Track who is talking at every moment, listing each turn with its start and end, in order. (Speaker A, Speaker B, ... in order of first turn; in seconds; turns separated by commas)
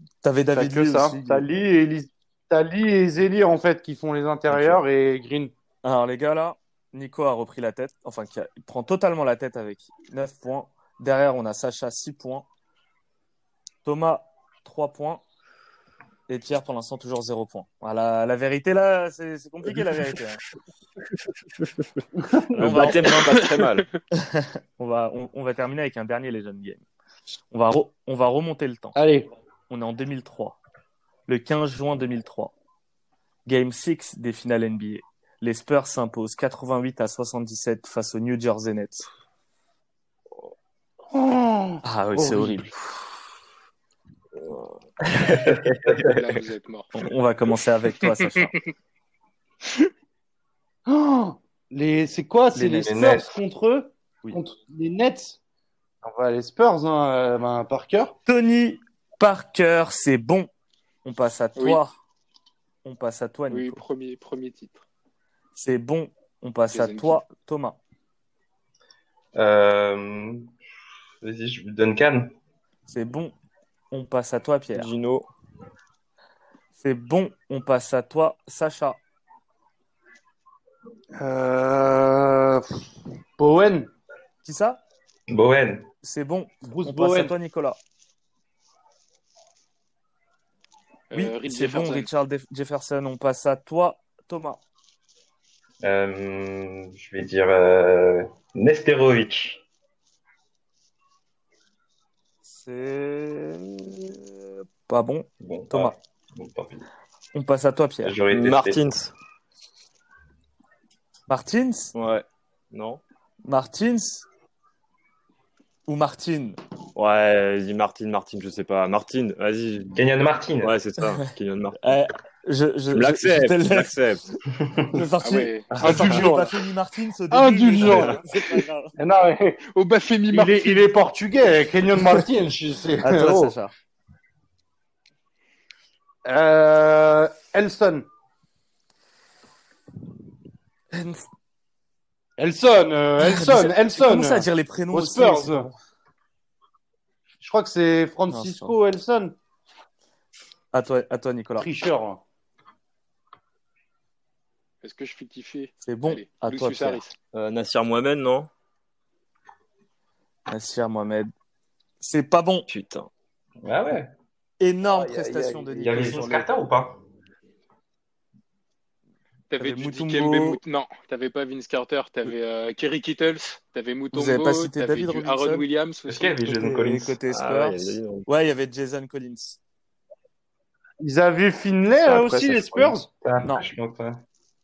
Speaker A: 0.2-1.5, Speaker B: 0.5-5.5, Speaker C: 4.5-4.8, Speaker A: 5.8-12.5, Speaker A: 13.8-15.2, Speaker A: 16.3-20.4, Speaker B: 22.3-22.8, Speaker C: 22.5-23.9, Speaker A: 22.5-23.4, Speaker A: 24.1-26.9, Speaker A: 27.5-29.0, Speaker B: 28.9-29.3, Speaker A: 29.7-30.6, Speaker A: 31.3-32.5, Speaker A: 33.5-39.1, Speaker B: 41.1-42.7, Speaker A: 41.8-42.7, Speaker C: 44.4-46.2, Speaker D: 45.9-46.9, Speaker A: 46.9-48.5, Speaker B: 50.9-55.4, Speaker A: 52.6-52.9, Speaker E: 52.6-53.4, Speaker B: 56.0-58.1, Speaker A: 58.3-60.5, Speaker A: 61.0-62.0, Speaker A: 62.9-63.8, Speaker D: 63.5-64.8, Speaker A: 65.6-67.8, Speaker D: 66.7-67.2, Speaker E: 69.3-70.5, Speaker E: 71.2-72.3, Speaker A: 72.9-73.3, Speaker A: 73.9-74.9, Speaker C: 74.7-75.3, Speaker A: 76.8-79.0, Speaker B: 81.2-82.8, Speaker B: 83.4-83.9, Speaker A: 84.4-84.8, Speaker E: 85.3-85.9, Speaker A: 86.0-87.8, Speaker B: 86.7-87.3, Speaker D: 91.1-92.1, Speaker A: 91.1-94.6, Speaker E: 95.8-99.6, Speaker A: 102.5-106.0, Speaker E: 105.4-106.8, Speaker A: 107.3-108.2, Speaker E: 108.0-108.8, Speaker C: 108.3-109.1, Speaker A: 111.3-111.9, Speaker C: 111.9-113.0, Speaker A: 113.5-114.3, Speaker A: 115.9-116.6, Speaker C: 117.0-120.0, Speaker E: 120.0-120.8, Speaker C: 120.6-121.9, Speaker A: 121.8-124.4, Speaker C: 122.9-124.2, Speaker A: 124.9-128.9, Speaker D: 125.2-126.3, Speaker B: 125.7-126.5, Speaker D: 127.3-128.4, Speaker C: 127.8-128.2, Speaker B: 129.0-129.6, Speaker D: 129.7-130.9, Speaker B: 130.3-133.6, Speaker A: 133.0-133.7, Speaker B: 136.2-138.1, Speaker A: 140.9-141.2, Speaker B: 142.4-145.7, Speaker A: 143.2-145.8, Speaker B: 147.4-149.3, Speaker A: 148.3-148.8, Speaker A: 150.7-151.7, Speaker B: 151.6-152.2, Speaker D: 154.8-157.1, Speaker A: 155.8-157.1, Speaker C: 157.3-158.5, Speaker A: 160.5-161.3, Speaker A: 162.0-162.7, Speaker C: 162.7-163.1, Speaker E: 163.6-164.1, Speaker A: 164.6-166.5, Speaker B: 164.9-166.1, Speaker E: 165.7-167.0, Speaker D: 169.5-176.4, Speaker A: 169.6-170.6, Speaker A: 174.1-175.7, Speaker E: 176.1-177.2, Speaker A: 176.4-179.6, Speaker C: 177.3-178.3, Speaker B: 181.0-183.1, Speaker C: 182.0-183.0, Speaker E: 183.2-184.2